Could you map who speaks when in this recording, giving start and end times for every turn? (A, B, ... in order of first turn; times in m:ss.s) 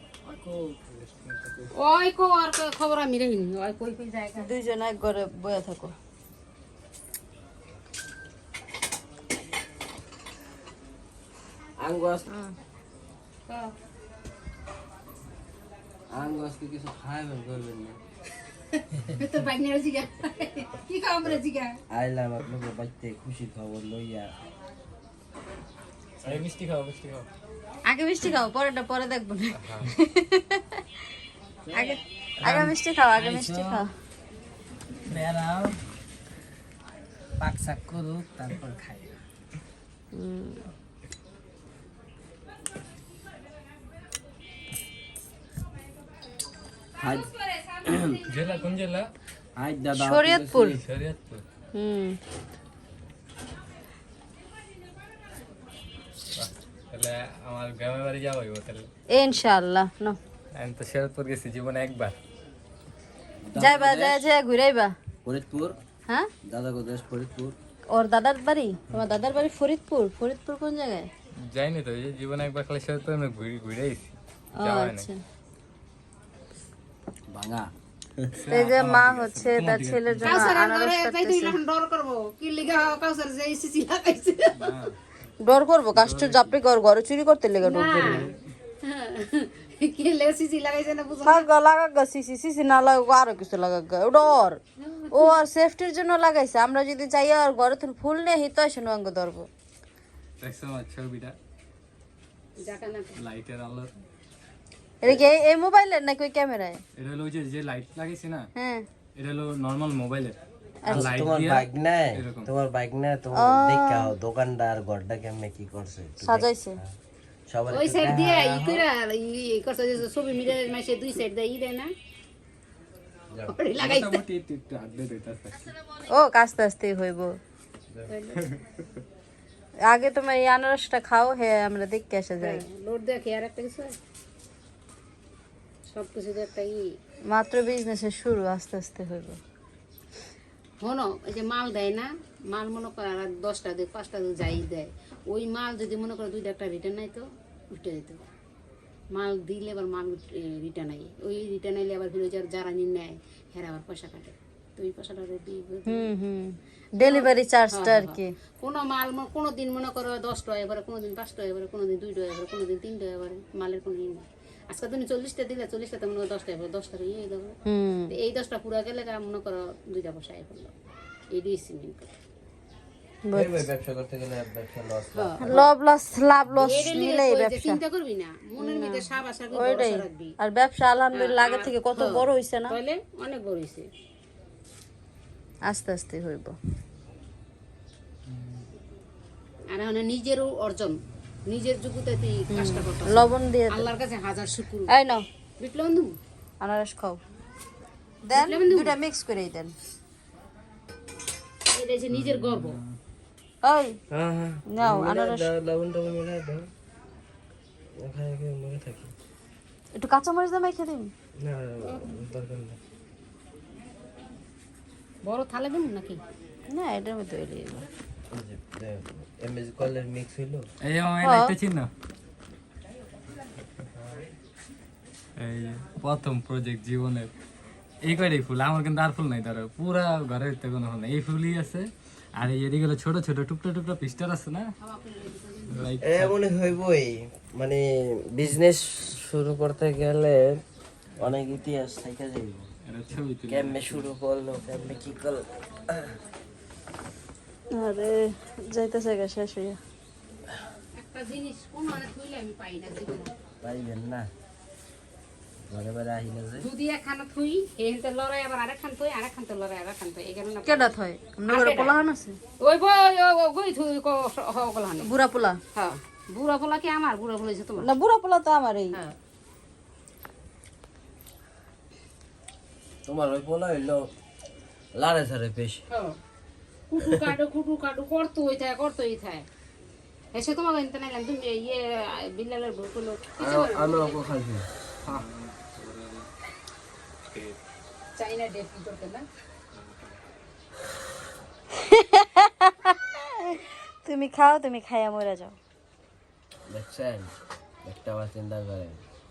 0:00.2-0:01.7 A
0:01.8-0:04.5 B
0:04.4-0:05.9 C
0:11.8-0:12.2 D
0:12.3-0:12.5 C
0:13.5-0:13.7 B
0:16.1-0:18.0 D
0:18.7-0:21.8 B
0:21.9-0:24.3 D
0:26.2-0:27.3 A
0:27.8-0:30.8 C
0:29.6-0:29.9 A
0:31.7-0:33.9 C
0:32.4-0:32.7 A
0:35.1-0:35.7 E
0:37.4-0:39.1 E
0:40.1-0:40.7 C
0:47.0-0:48.2 D
0:47.4-0:47.8 B
0:48.3-0:49.1 A
0:49.6-0:50.8 D
0:49.9-0:50.8 C
0:50.8-0:51.4 A
0:51.7-0:52.2 C
0:56.4-0:58.9 A
0:59.1-1:00.2 C
1:00.6-1:02.2 A
1:03.5-1:04.2 D
1:03.6-1:04.9 C
1:05.2-1:05.8 D
1:06.4-1:07.6 D
1:07.9-1:11.1 C
1:11.4-1:15.1 A
1:14.6-1:15.2 C
1:17.3-1:18.3 D
1:18.4-1:20.5 A
1:18.5-1:21.5 C
1:20.2-1:24.8 B
1:24.5-1:25.3 A
1:25.4-1:28.2 C
1:26.0-1:26.5 A
1:27.6-1:28.3 B
1:28.0-1:28.3 A
1:28.8-1:31.4 B
1:31.2-1:34.6 C
1:34.8-1:35.3 B
1:35.1-1:39.5 C
1:40.4-1:41.3 A
1:42.6-1:43.2 B
1:43.2-1:43.9 A
1:45.0-1:46.8 C
1:47.0-1:48.5 A
1:48.6-1:48.8 C
1:49.2-1:52.5 A
1:50.8-1:51.1 C
1:50.9-1:56.9 D
1:53.3-1:54.1 C
1:56.2-1:56.8 C
1:57.5-1:58.8 D
1:57.7-2:01.9 B
2:03.5-2:04.2 B
2:03.8-2:05.7 A
2:06.1-2:07.3 C
2:08.1-2:08.4 B
2:09.9-2:12.6 C
2:12.4-2:14.0 B
2:15.9-2:16.9 B
2:17.3-2:19.4 C
2:20.8-2:28.2 B
2:29.1-2:36.1 B
2:35.9-2:38.3 C
2:37.0-2:47.6 B
2:47.7-2:48.1 C
2:48.1-2:50.7 B
2:51.3-2:52.1 B
2:53.2-2:53.6 C
2:53.3-2:55.6 D
2:55.4-2:57.8 C
2:56.6-3:00.3 B
2:58.6-3:02.8 C
3:01.2-3:03.9 B
3:05.7-3:06.5 C
3:08.3-3:08.6 A
3:09.7-3:14.9 B
3:12.5-3:13.9 C
3:14.9-3:15.2 C
3:15.6-3:16.1 B
3:16.6-3:17.2 C
3:18.2-3:19.7 C
3:18.4-3:19.0 B
3:21.7-3:22.8 B
3:22.1-3:23.0 A
3:23.6-3:24.0 C
3:24.1-3:26.7 D
3:24.7-3:25.5 C
3:28.0-3:29.1 D
3:30.0-3:31.1 C
3:31.4-3:32.8 D
3:35.2-3:36.2 B
3:36.7-3:37.8 C
3:38.3-3:40.6 D
3:40.8-3:41.9 A
3:41.2-3:41.5 C
3:45.4-3:47.3 A
3:48.0-3:54.7 A
3:54.8-3:56.0 B
3:55.7-3:56.3 A
3:56.0-4:00.6 D
4:01.2-4:02.7 D
4:02.9-4:04.0 A
4:03.5-4:06.1 D
4:07.8-4:09.8 C
4:11.0-4:13.3 B
4:13.6-4:14.3 D
4:15.7-4:16.7 D
4:16.6-4:20.9 B
4:20.6-4:22.4 C
4:21.5-4:22.0 B
4:22.6-4:25.1 B
4:25.0-4:25.6 C
4:25.7-4:27.8 B
4:27.8-4:29.0 C
4:33.0-4:34.0 D
4:35.0-4:35.8 D
4:35.9-4:36.2 B
4:36.9-4:39.4 B
4:40.3-4:44.2 B
4:43.4-4:44.6 D
4:45.0-4:46.3 A
4:47.3-4:47.6 A
4:48.2-4:49.2 B
4:49.7-4:50.2 A
4:51.8-4:55.6 C
4:56.7-4:57.3 D
4:57.8-4:59.0 D